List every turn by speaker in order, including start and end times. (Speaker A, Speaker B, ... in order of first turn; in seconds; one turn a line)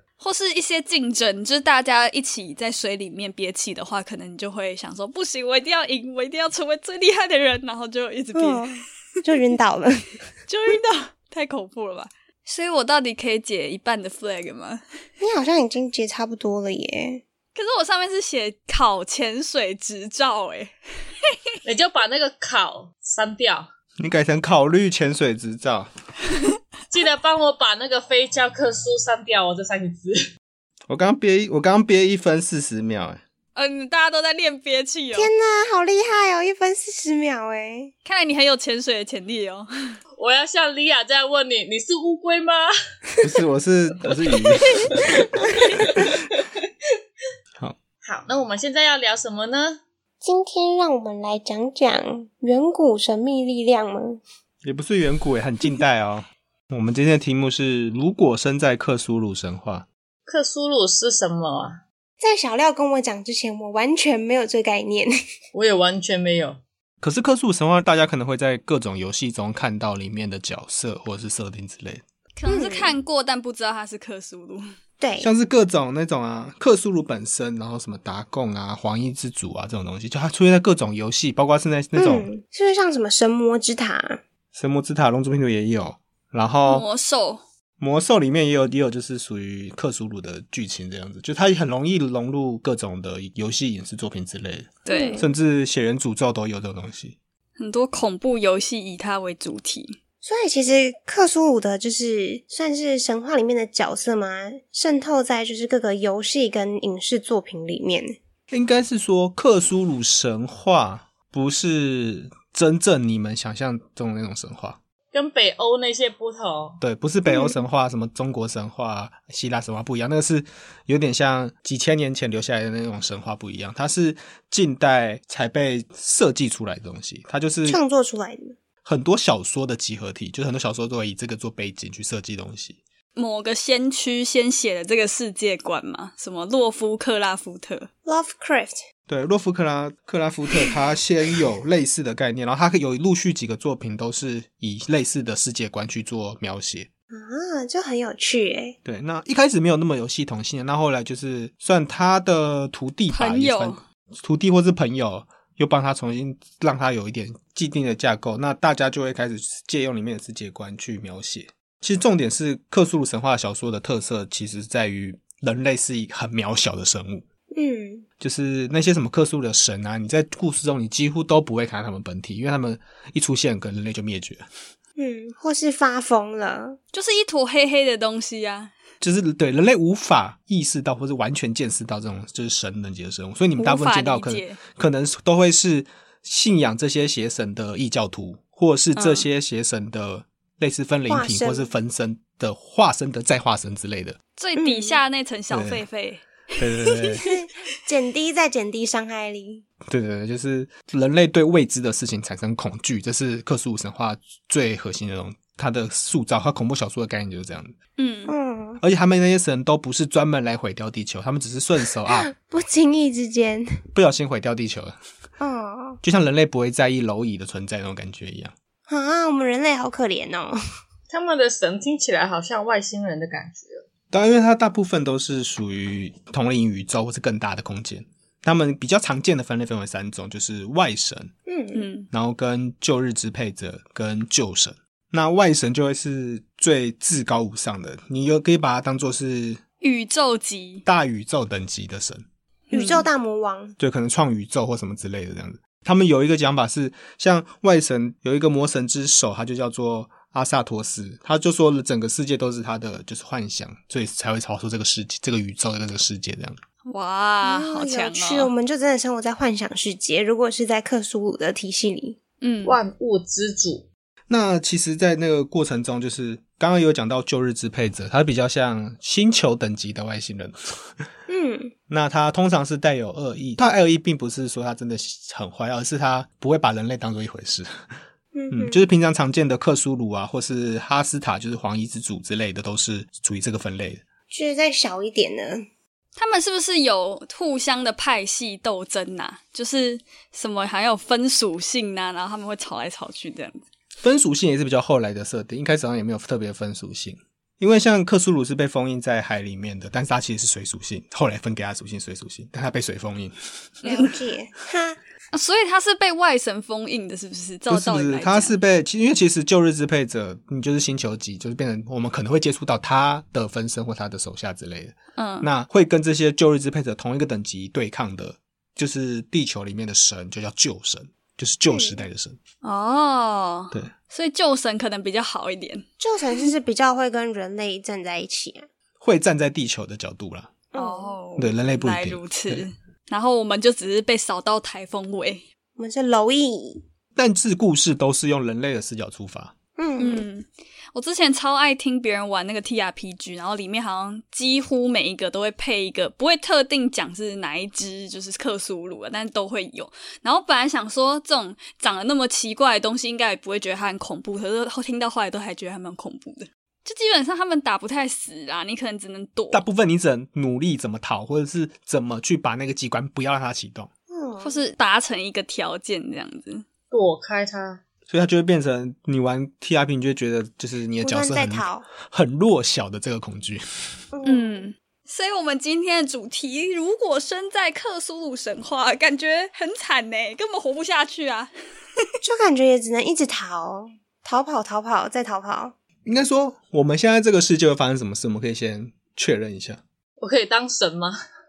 Speaker A: 0.2-8.7
Speaker B: 8.3-10.2
Speaker A: 10.5-14.8
Speaker B: 15.2-17.2
Speaker A: 17.5-20.7
Speaker C: 21.6-23.7
Speaker D: 24.0-25.9
Speaker C: 26.9-30.2
Speaker D: 30.9-33.2
Speaker A: 33.5-35.3
Speaker B: 35.1-37.9
Speaker A: 38.0-39.7
Speaker C: 40.2-42.7
Speaker D: 43.2-45.0
Speaker C: 45.8-46.1
Speaker C: 48.0-49.8
Speaker B: 50.2-54.2
Speaker D: 54.6-59.9
Speaker C: 60.3-61.8
Speaker B: 62.2-65.1
Speaker C: 65.5-66.6
Speaker D: 67.0-72.0
Speaker A: 72.3-74.6
Speaker B: 72.5-73.0
Speaker B: 75.0-75.3
Speaker D: 75.2-82.3
Speaker B: 82.0-84.2
Speaker D: 84.5-86.8
Speaker A: 86.7-87.4
Speaker D: 87.8-97.2
Speaker A: 94.8-95.2
Speaker B: 94.9-95.3
Speaker A: 97.6-100.0
Speaker B: 100.2-108.1
Speaker D: 108.5-114.8
Speaker C: 115.1-116.8
Speaker D: 116.8-127.8
Speaker B: 117.3-117.6
Speaker B: 127.7-128.6
Speaker D: 128.8-132.8
Speaker A: 133.1-137.9
Speaker B: 138.0-138.8
Speaker D: 139.1-146.9
Speaker B: 147.1-148.8
Speaker D: 148.8-167.2
Speaker A: 153.1-153.8
Speaker B: 167.5-168.0
Speaker D: 168.2-174.4
Speaker B: 175.0-176.8
Speaker A: 176.9-178.7
Speaker D: 179.0-194.2
Speaker A: 183.6-184.6
Speaker A: 188.9-189.2
Speaker B: 191.1-191.7
Speaker A: 194.4-197.3
Speaker B: 194.6-195.0
Speaker D: 195.5-195.8
Speaker D: 196.6-197.3
Speaker B: 197.2-199.6
Speaker D: 199.9-207.7
Speaker A: 208.0-208.3
Speaker B: 208.3-208.8
Speaker D: 208.8-212.3
Speaker B: 212.1-213.7
Speaker D: 213.9-215.0
Speaker B: 215.4-216.0
Speaker D: 216.0-218.5
Speaker B: 218.9-220.6
Speaker C: 221.1-223.8
Speaker D: 224.1-231.3
Speaker B: 231.5-231.8
Speaker A: 231.7-232.1
Speaker D: 232.1-239.6
Speaker A: 239.8-240.8
Speaker D: 240.8-242.2
Speaker B: 242.7-243.7
Speaker A: 242.7-243.1
Speaker D: 243.8-256.6
Speaker A: 256.9-258.5
Speaker B: 257.4-262.2
Speaker A: 262.4-262.8
Speaker C: 262.6-263.9
Speaker D: 264.3-270.9
Speaker B: 271.3-271.7
Speaker D: 271.9-277.7
Speaker B: 278.3-278.8
Speaker D: 278.5-284.0
Speaker B: 284.3-285.6
Speaker A: 286.1-293.6
Speaker D: 294.0-303.3
Speaker A: 303.8-304.1
Speaker B: 303.8-305.0
Speaker A: 305.3-308.6
Speaker D: 307.7-322.4
Speaker A: 315.1-315.5
Speaker B: 321.7-322.0
Speaker A: 322.6-325.9
Speaker B: 326.0-328.7
Speaker D: 329.0-330.5
Speaker B: 330.7-331.1
Speaker A: 330.8-335.4
Speaker D: 331.4-332.6
Speaker B: 335.8-336.8
Speaker D: 337.1-339.5
Speaker B: 339.8-340.2
Speaker A: 340.0-359.6
Speaker D: 359.5-363.9
Speaker B: 364.1-364.6
Speaker A: 364.4-366.6
Speaker C: 366.9-367.8
Speaker D: 368.1-373.6
Speaker B: 371.0-371.9
Speaker B: 374.1-374.6
Speaker A: 374.2-381.5
Speaker B: 382.2-385.7
Speaker D: 386.0-389.8
Speaker C: 390.2-391.1